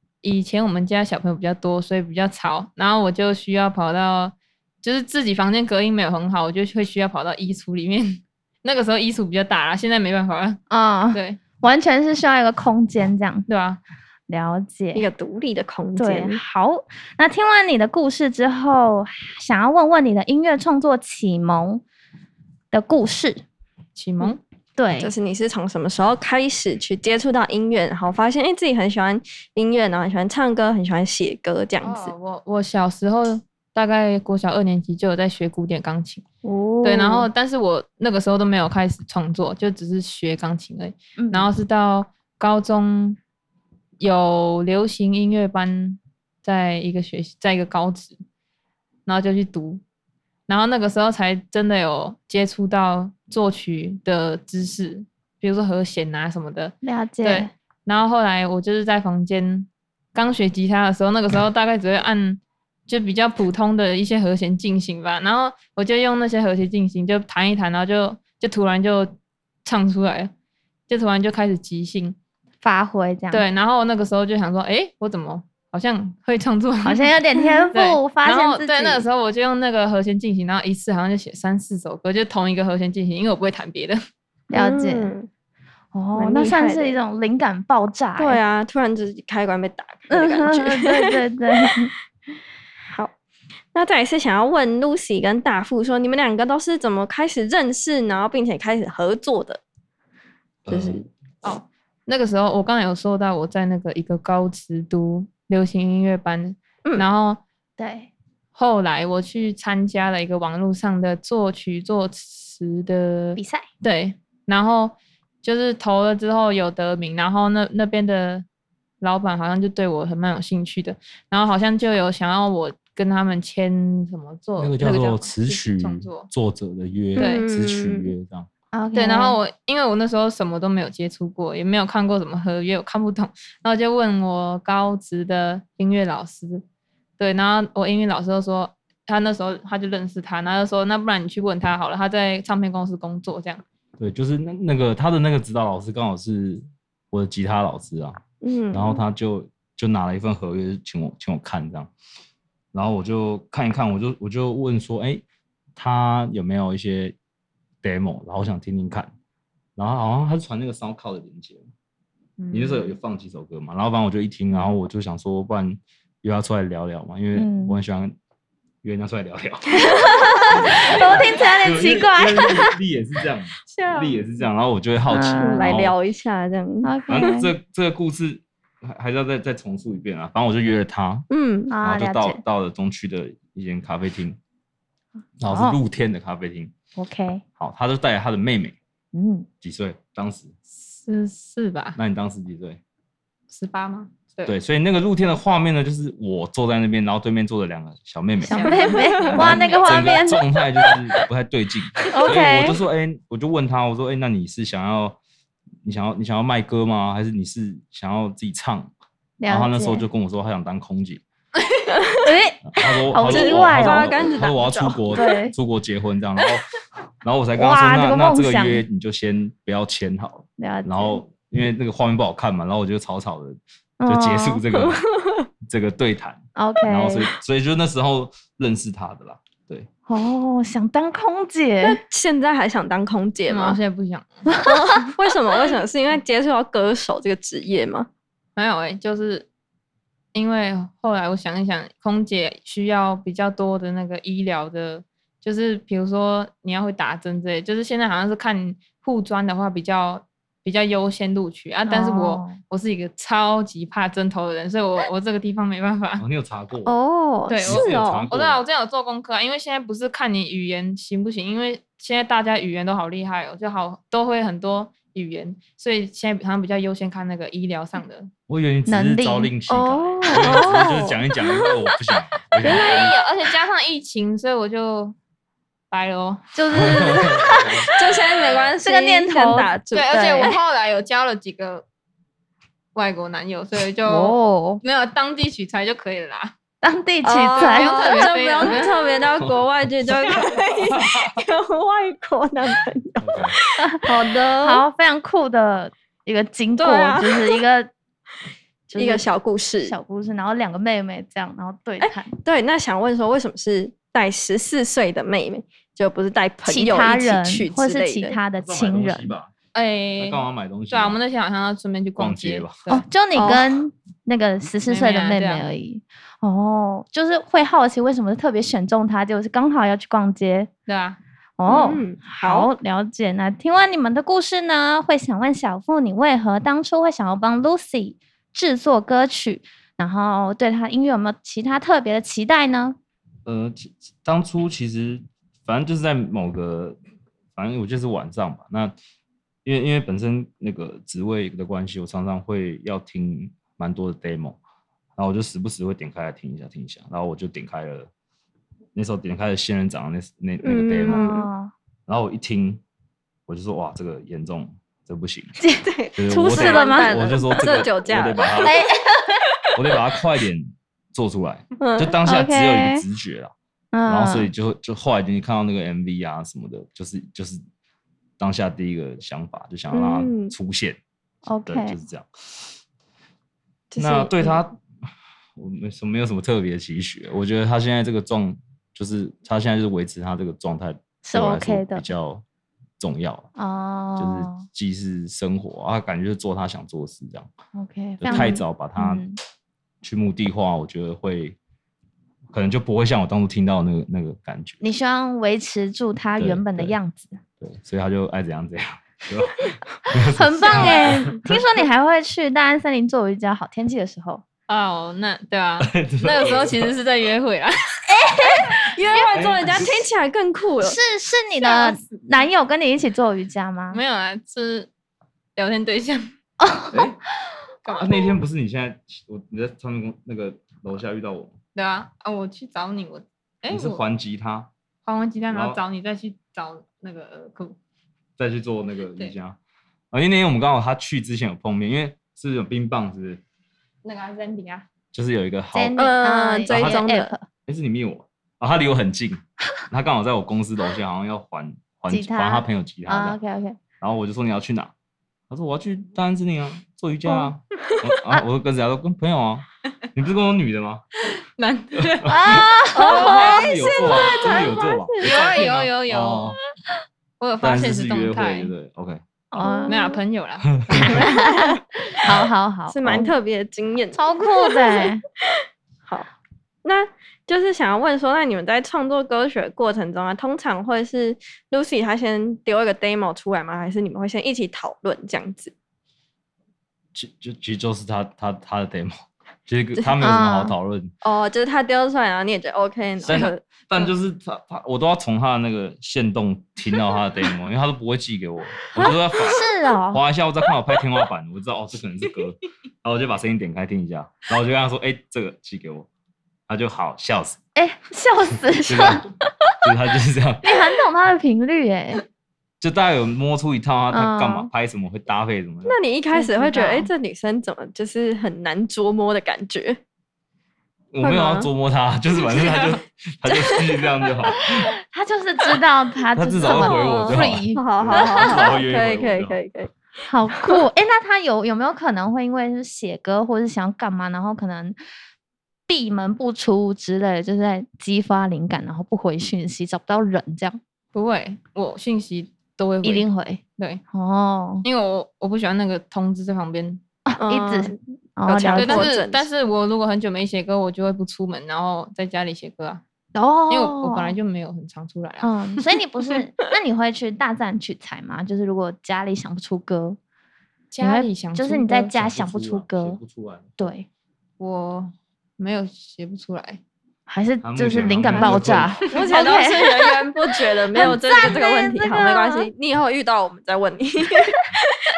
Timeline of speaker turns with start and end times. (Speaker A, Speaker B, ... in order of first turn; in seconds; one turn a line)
Speaker A: 0.2-10.6
Speaker B: 10.7-13.5
Speaker A: 11.1-11.4
Speaker A: 13.5-13.8
Speaker B: 14.3-15.1
Speaker C: 14.9-16.4
Speaker B: 16.0-21.8
Speaker B: 22.7-23.4
Speaker A: 24.0-24.4
Speaker B: 24.8-25.1
Speaker C: 25.0-32.1
Speaker A: 31.8-36.2
Speaker B: 36.4-37.2
Speaker A: 36.8-43.2
Speaker B: 41.2-41.5
Speaker A: 44.0-48.2
Speaker A: 49.1-49.8
Speaker A: 50.5-70.3
Speaker B: 56.8-57.5
Speaker A: 70.9-72.2
Speaker B: 72.6-73.4
Speaker A: 73.3-77.2
Speaker B: 76.8-79.0
Speaker A: 77.7-84.0
Speaker B: 84.5-85.2
Speaker C: 84.5-85.3
Speaker B: 85.9-88.4
Speaker C: 86.2-87.0
Speaker C: 88.2-91.9
Speaker B: 90.1-91.9
Speaker C: 93.7-99.6
Speaker D: 100.7-101.0
Speaker C: 100.7-101.5
Speaker A: 101.4-107.4
Speaker B: 107.8-108.1
Speaker A: 108.6-118.5
Speaker B: 113.3-113.7
Speaker A: 119.0-126.3
Speaker D: 124.6-128.5
Speaker A: 127.2-127.5
Speaker C: 127.2-128.1
Speaker B: 128.7-129.4
Speaker A: 128.9-136.6
Speaker A: 137.2-143.6
Speaker D: 144.0-148.2
Speaker C: 148.4-149.0
Speaker D: 148.7-151.9
Speaker D: 152.7-155.2
Speaker D: 155.8-157.2
Speaker D: 157.8-159.1
Speaker D: 159.8-161.7
Speaker A: 162.4-162.9
Speaker D: 162.5-168.1
Speaker B: 167.3-167.8
Speaker D: 168.8-175.9
Speaker B: 170.4-172.8
Speaker C: 173.8-174.2
Speaker B: 175.1-175.8
Speaker C: 175.4-176.9
Speaker B: 176.8-177.5
Speaker D: 177.1-181.3
Speaker C: 181.3-181.7
Speaker B: 181.7-182.4
Speaker D: 181.8-184.4
Speaker D: 185.4-186.7
Speaker B: 185.5-185.8
Speaker B: 187.0-187.4
Speaker D: 187.6-188.8
Speaker B: 189.1-189.5
Speaker D: 189.6-190.6
Speaker A: 190.8-192.0
Speaker D: 192.0-192.8
Speaker A: 193.5-194.5
Speaker D: 194.5-205.2
Speaker B: 198.4-200.4
Speaker A: 198.5-200.2
Speaker C: 198.9-199.4
Speaker B: 202.1-202.8
Speaker D: 205.8-208.9
Speaker B: 209.4-210.1
Speaker D: 209.5-211.2
Speaker A: 211.6-211.9
Speaker C: 211.9-212.3
Speaker B: 212.2-214.2
Speaker D: 212.7-216.7
Speaker C: 213.3-215.2
Speaker B: 215.1-215.5
Speaker D: 217.2-225.1
Speaker B: 217.6-218.8
Speaker B: 220.6-221.2
Speaker B: 224.0-224.6
Speaker C: 224.9-225.3
Speaker D: 225.7-229.9
Speaker B: 226.6-227.3
Speaker B: 230.1-232.0
Speaker C: 231.8-233.8
Speaker A: 233.5-234.5
Speaker C: 234.6-238.1
Speaker A: 238.6-239.5
Speaker A: 240.3-256.2
Speaker B: 251.9-252.6
Speaker D: 256.2-256.9
Speaker C: 256.9-258.3
Speaker A: 257.5-268.3
Speaker D: 257.6-258.6
Speaker D: 268.5-273.2
Speaker B: 268.9-269.5
Speaker C: 269.7-271.9
Speaker A: 272.6-275.1
Speaker C: 272.6-273.1
Speaker A: 275.9-276.4
Speaker B: 276.6-277.9
Speaker D: 276.7-278.7
Speaker C: 277.9-280.5
Speaker B: 278.8-280.5
Speaker A: 279.9-281.9
Speaker A: 282.9-286.5
Speaker B: 284.1-284.8
Speaker B: 286.8-288.3
Speaker C: 287.2-294.8
Speaker A: 287.6-289.2
Speaker D: 289.4-290.4
Speaker D: 290.9-291.3
Speaker D: 293.2-293.6
Speaker B: 293.8-297.9
Speaker C: 296.8-297.6
Speaker B: 298.9-299.3
Speaker C: 299.0-300.0
Speaker B: 299.8-302.3
Speaker C: 302.0-308.4
Speaker B: 306.6-309.4
Speaker D: 308.6-309.5
Speaker A: 309.7-313.0
Speaker D: 310.2-311.2
Speaker D: 312.2-312.8
Speaker B: 312.9-320.7
Speaker C: 313.3-313.7
Speaker A: 314.9-315.6
Speaker A: 320.9-321.2
Speaker B: 321.6-333.0
Speaker C: 321.7-322.7
Speaker D: 333.4-337.0
Speaker D: 337.6-338.9
Speaker D: 339.6-344.6
Speaker D: 345.2-348.1
Speaker D: 348.9-351.3
Speaker C: 350.6-351.5
Speaker B: 351.1-351.7
Speaker D: 352.1-352.8
Speaker D: 353.5-355.6
Speaker B: 355.6-357.5
Speaker C: 355.9-358.6
Speaker D: 356.1-358.8
Speaker B: 358.6-359.4
Speaker D: 359.8-363.5
Speaker C: 361.8-362.1
Speaker B: 362.2-363.0
Speaker B: 363.9-364.5
Speaker D: 364.1-367.6
Speaker D: 368.4-371.0
Speaker C: 369.9-370.5
Speaker B: 371.5-372.0
Speaker D: 371.7-372.8
Speaker C: 373.9-374.6
Speaker D: 374.0-374.8
Speaker D: 375.6-382.4
Speaker B: 381.2-382.1
Speaker D: 383.0-383.5
Speaker B: 383.6-384.6
Speaker D: 384.2-387.5
Speaker B: 387.7-389.4
Speaker D: 388.2-389.2
Speaker C: 388.3-388.6
Speaker D: 390.0-391.6
Speaker D: 392.5-394.8
Speaker B: 394.8-397.4
Speaker D: 396.4-396.9
Speaker D: 397.6-401.9
Speaker B: 400.3-404.4
Speaker A: 404.7-407.9
Speaker D: 405.8-406.9
Speaker B: 408.1-409.3
Speaker C: 408.5-411.0
Speaker D: 409.3-410.1
Speaker B: 410.8-414.0
Speaker A: 411.6-412.2
Speaker A: 413.9-414.9
Speaker A: 415.6-416.3
Speaker B: 416.6-417.0
Speaker D: 416.9-417.2
Speaker A: 417.9-418.2
Speaker D: 417.9-421.6
Speaker A: 421.8-424.0
Speaker D: 423.7-424.7
Speaker A: 425.1-427.8
Speaker D: 425.5-425.8
Speaker D: 428.4-429.6
Speaker D: 430.1-433.4
Speaker A: 434.0-434.9
Speaker D: 435.1-436.0
Speaker B: 435.7-437.5
Speaker C: 435.9-437.3
Speaker D: 436.7-437.0
Speaker D: 437.7-443.4
Speaker B: 442.1-443.8
Speaker D: 444.0-444.9
Speaker D: 445.5-451.0
Speaker A: 451.6-452.3
Speaker D: 451.9-456.6
Speaker B: 452.3-453.4
Speaker C: 452.9-455.5
Speaker A: 453.0-454.6
Speaker A: 455.2-456.6
Speaker A: 457.4-458.7
Speaker D: 457.6-459.2
Speaker B: 459.5-460.2
Speaker C: 459.6-460.2
Speaker A: 459.9-461.3
Speaker D: 460.7-461.2
Speaker B: 461.0-461.6
Speaker C: 461.0-461.8
Speaker B: 462.2-463.3
Speaker C: 462.9-465.1
Speaker B: 464.1-465.2
Speaker C: 466.8-475.7
Speaker D: 477.1-481.1
Speaker B: 480.2-480.7
Speaker C: 481.2-484.1
Speaker D: 483.2-496.1
Speaker B: 489.0-490.2
Speaker D: 496.7-497.6
Speaker B: 497.8-499.4
Speaker D: 498.9-499.3
Speaker D: 499.8-500.8
Speaker B: 500.6-502.2
Speaker D: 502.8-506.0
Speaker B: 504.1-504.7
Speaker C: 505.9-510.0
Speaker B: 506.3-507.1
Speaker D: 511.1-514.9
Speaker C: 511.2-511.7
Speaker C: 512.4-513.8
Speaker B: 515.1-518.7
Speaker D: 516.4-519.6
Speaker C: 516.7-519.9
Speaker B: 520.3-525.0
Speaker B: 525.9-530.8
Speaker A: 531.1-533.3
Speaker B: 533.0-533.6
Speaker B: 534.1-534.9
Speaker A: 534.8-537.0
Speaker B: 537.3-539.1
Speaker C: 537.4-539.5
Speaker A: 538.8-543.0
Speaker B: 543.4-544.4
Speaker A: 543.7-545.5
Speaker B: 545.4-550.2
Speaker A: 550.9-552.1
Speaker B: 551.0-553.2
Speaker D: 552.1-553.8
Speaker B: 553.8-554.1
Speaker A: 554.6-556.8
Speaker B: 557.3-560.1
Speaker D: 557.6-559.2
Speaker C: 559.1-564.8
Speaker B: 560.9-562.7